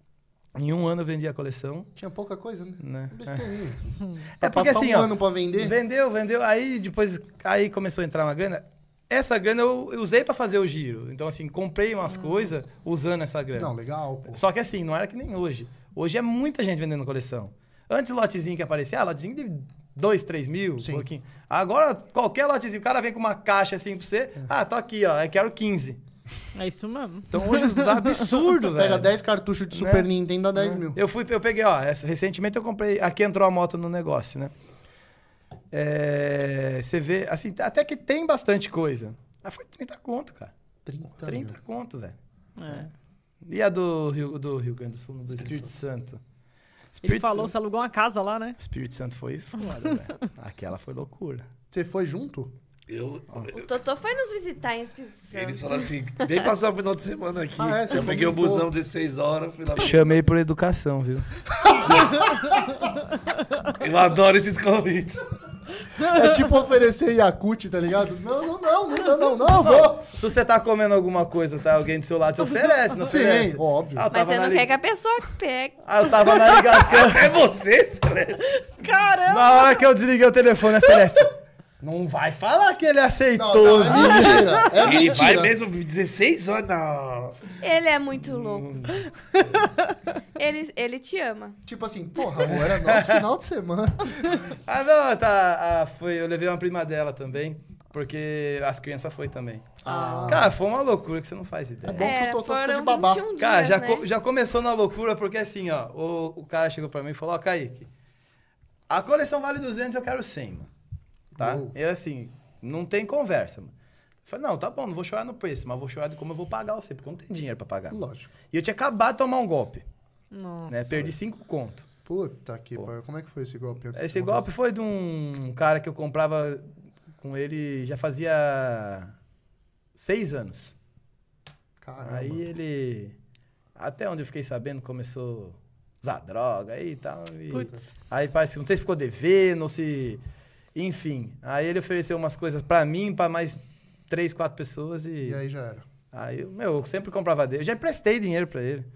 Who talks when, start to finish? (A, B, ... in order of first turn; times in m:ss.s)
0:00.5-0:01.9 A
0:02.0-0:05.8 B
0:02.8-0:03.5 A
0:04.4-0:13.7 A
0:13.6-0:14.4 B
0:14.3-0:26.0 A
0:20.8-0:21.1 B
0:26.5-0:28.4 C
0:27.3-0:29.1 A
0:28.7-0:31.0 B
0:29.7-0:34.5 A
0:35.7-0:40.5 A
0:40.8-0:41.6 B
0:41.2-0:42.2 A
0:42.6-0:42.9 C
0:43.4-0:46.2 A
0:45.3-0:45.7 B
0:46.9-0:47.5 A
0:47.0-0:48.6 C
0:48.6-0:51.5 A
0:51.7-0:52.5 B
0:52.9-0:53.7 D
0:53.5-0:55.8 E
0:55.3-1:00.0 D
0:57.6-0:58.7 B
0:59.8-1:01.3 A
1:01.6-1:02.4 B
1:03.7-1:05.2 D
1:06.0-1:10.1 B
1:09.5-1:14.7 A
1:13.0-1:14.0 B
1:14.1-1:15.8 E
1:15.8-1:17.4 A
1:16.8-1:18.5 D
1:18.6-1:19.8 C
1:19.3-1:24.7 A
1:23.3-1:25.6 B
1:24.0-1:24.7 C
1:24.8-1:27.5 D
1:27.6-1:28.9 E
1:28.3-1:29.1 A
1:29.3-1:29.9 C
1:30.4-1:31.6 E
1:31.6-1:34.2 B
1:32.5-1:33.2 A
1:34.3-1:42.1 A
1:39.8-1:40.5 B
1:39.9-1:40.4 C
1:41.9-1:43.2 B
1:42.0-1:44.0 E
1:43.4-1:47.9 A
1:48.9-1:50.7 A
1:51.3-1:51.7 B
1:51.4-1:53.7 A
1:54.2-1:58.0 A
1:57.9-1:58.3 B
1:58.5-1:59.8 A
2:00.3-2:00.7 C
2:00.7-2:01.9 A
2:02.0-2:04.5 B
2:03.9-2:06.7 A
2:07.2-2:09.1 A
2:10.0-2:10.7 A
2:11.8-2:12.4 B
2:12.0-2:13.1 A
2:13.8-2:20.2 A
2:17.5-2:17.8 C
2:17.5-2:17.8 B
2:20.7-2:25.4 A
2:25.2-2:25.9 B
2:26.1-2:28.9 A